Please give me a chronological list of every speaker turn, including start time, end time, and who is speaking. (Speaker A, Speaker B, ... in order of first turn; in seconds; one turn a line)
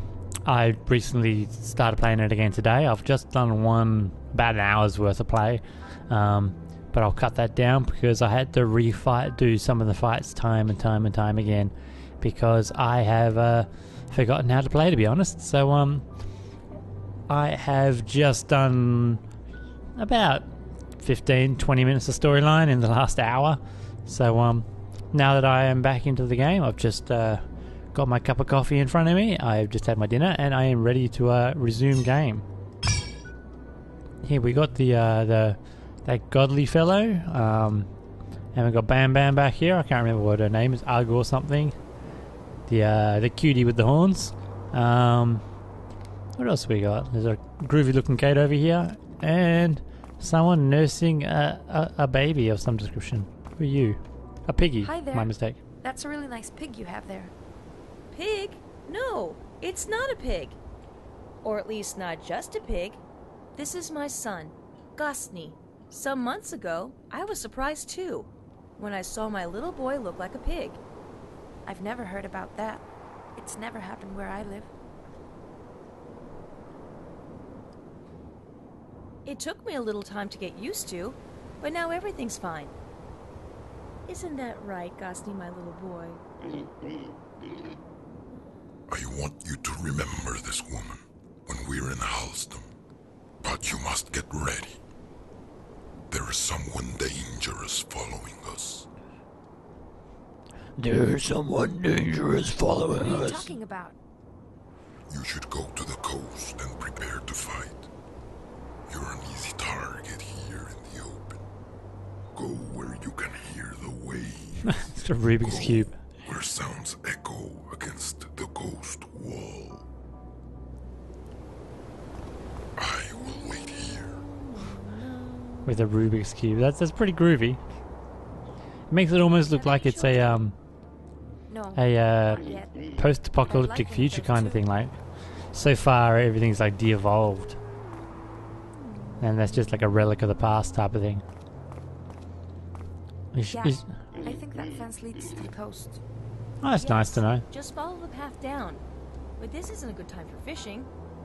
Speaker A: 0.4-16.0
Speaker A: 17.3-19.2
Speaker A: 20.0-20.4
Speaker A: 21.0-32.4
Speaker A: 34.2-37.9
Speaker A: 38.5-41.7
Speaker A: 42.7-45.4
Speaker A: 46.4-55.6
Speaker B: 54.8-57.3
Speaker C: 58.1-60.6
Speaker C: 61.4-63.0
Speaker C: 63.5-70.8
Speaker B: 71.6-72.8
Speaker B: 73.3-74.7
Speaker C: 79.2-82.7
Speaker C: 84.0-86.2
Speaker D: 88.9-92.7
Speaker D: 93.4-94.8
Speaker D: 96.1-98.9
Speaker A: 100.8-103.4
Speaker B: 103.0-104.0
Speaker D: 105.1-107.8
Speaker D: 108.9-111.4
Speaker D: 112.3-119.8
Speaker A: 114.8-116.0
Speaker D: 122.8-124.2
Speaker A: 125.6-127.6
Speaker A: 128.9-130.5
Speaker B: 129.5-130.4
Speaker B: 131.5-132.9
Speaker A: 131.7-134.9
Speaker B: 133.4-134.7
Speaker A: 135.5-137.6
Speaker A: 139.2-141.2
Speaker A: 143.3-143.8
Speaker B: 143.4-146.0
Speaker A: 146.6-147.4
Speaker C: 146.7-148.8
Speaker C: 149.4-150.9